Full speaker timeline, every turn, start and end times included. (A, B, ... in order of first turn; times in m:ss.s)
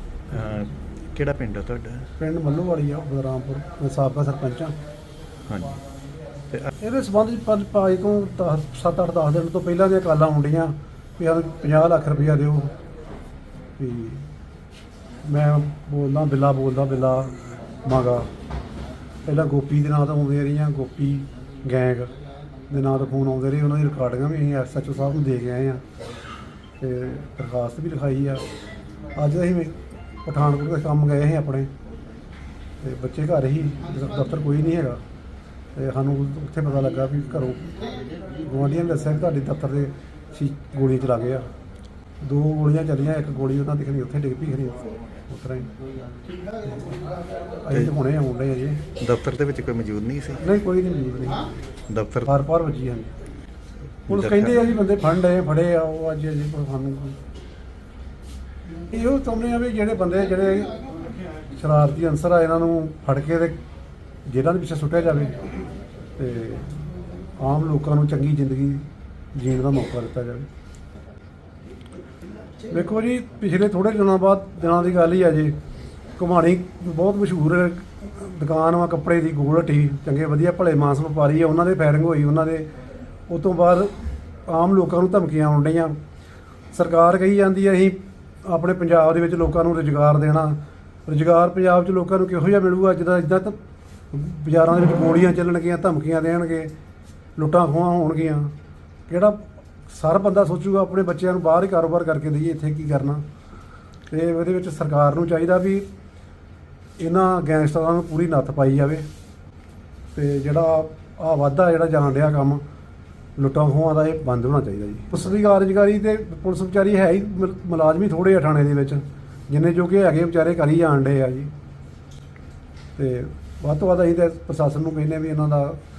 0:00.3-0:02.1 A
0:02.2-0:04.7 B
0:05.5-0:05.8 A
0:06.8-0:12.7 B
0:13.8-0:14.2 B
0:15.2-0:18.3 B
0:19.2-0:22.1 B
0:22.7-0:25.8 B
0:26.8-0:28.4 B
0:29.1-0:29.7 B
0:30.2-0:31.7 B
0:32.8-0:35.0 B
0:35.8-0:37.7 B
0:38.4-0:41.5 B
0:42.2-0:45.7 B
0:47.6-0:48.8 B
0:49.0-0:50.4 A
0:50.4-0:51.5 B
0:51.9-0:52.3 A
0:52.2-0:53.1 B
0:54.1-0:57.2 B
0:54.1-0:54.6 A
0:58.9-1:00.8 B
1:01.5-1:03.6 B
1:04.2-1:05.4 B
1:06.2-1:06.9 B
1:07.4-1:10.5 B
1:12.7-1:15.5 B
1:16.2-1:22.7 B
1:23.3-1:23.9 B
1:24.5-1:26.0 B
1:26.7-1:33.6 B
1:34.1-1:36.7 B
1:37.4-1:38.5 B
1:39.1-1:43.2 B
1:44.1-1:45.8 B
1:47.0-1:49.0 B
1:50.1-1:52.6 B
1:53.4-2:01.5 B
2:03.0-2:05.8 B